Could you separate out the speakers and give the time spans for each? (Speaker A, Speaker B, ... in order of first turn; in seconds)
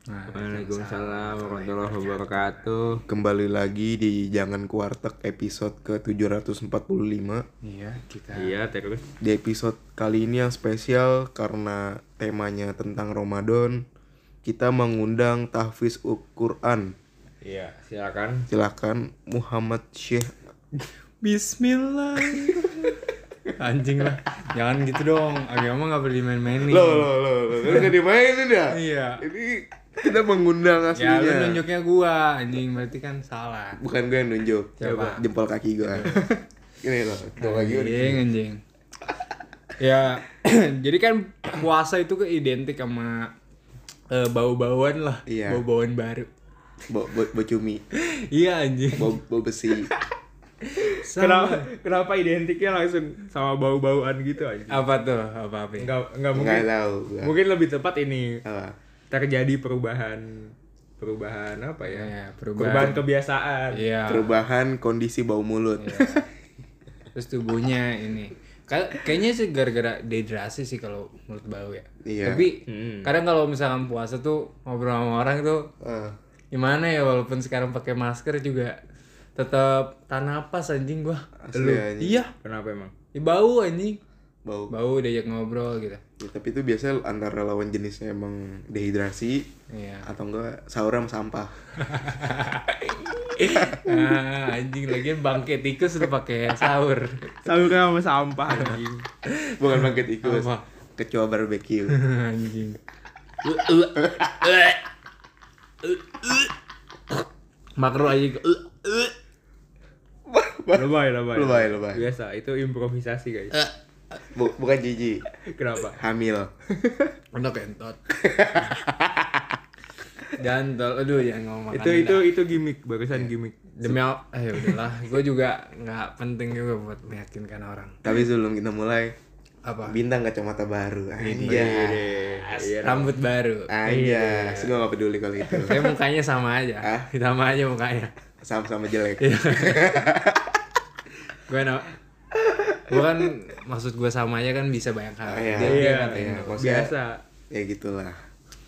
Speaker A: 0.1-2.5, 7.6-8.6, 21.2-23.0, 23.5-27.9, 28.7-29.2, 30.9-33.8, 34.8-35.2, 35.8-36.2, 37.4-38.6, 39.8-43.3, 44.1-46.3, 48.0-49.2, 50.8-51.7, 54.7-55.9, 61.9-63.0, 63.7-64.3, 65.8-66.3, 67.2-75.7, 76.5-78.8, 79.4-82.3, 83.1-84.0, 84.7-86.0, 89.7-90.1, 91.8-97.3, 99.3-100.6, 101.9-102.8, 103.4-104.8, 105.8-106.5, 107.8-109.1, 117.3-118.0, 120.4-122.3, 123.8-128.0, 129.7-130.0, 131.2-133.8, 135.5-138.1, 139.2-140.0, 141.5-141.9, 142.9-146.6
Speaker B: 0.3-3.0, 8.3-9.1, 17.4-18.5, 34.8-35.2, 50.9-54.8, 55.8-56.7, 57.2-58.4, 59.1-63.9, 72.7-73.1, 82.3-82.9, 97.4-99.1, 110.7-113.6, 115.5-116.0, 121.7-123.8, 131.5-133.1, 133.8-134.8, 145.6-147.2
Speaker C: 3.1-7.4, 9.2-13.8, 14.4-17.0, 18.5-20.3, 26.6-31.6, 33.8-38.3, 45.3-45.6, 46.9-47.8, 48.9-49.9, 56.3-57.4, 58.5-58.8, 64.1-66.2, 72.0-72.5, 75.8-76.2, 81.4-82.2, 84.5-84.7, 86.2-89.5, 90.0-91.5, 93.4-94.2, 99.6-102.0, 104.0-104.2, 110.3-112.1, 114.3-115.2, 116.0-116.5, 118.2-119.4, 128.0-129.2, 129.9-132.0, 133.7-135.9, 136.8-137.1, 138.4-140.6, 145.2-146.9, 147.5-148.2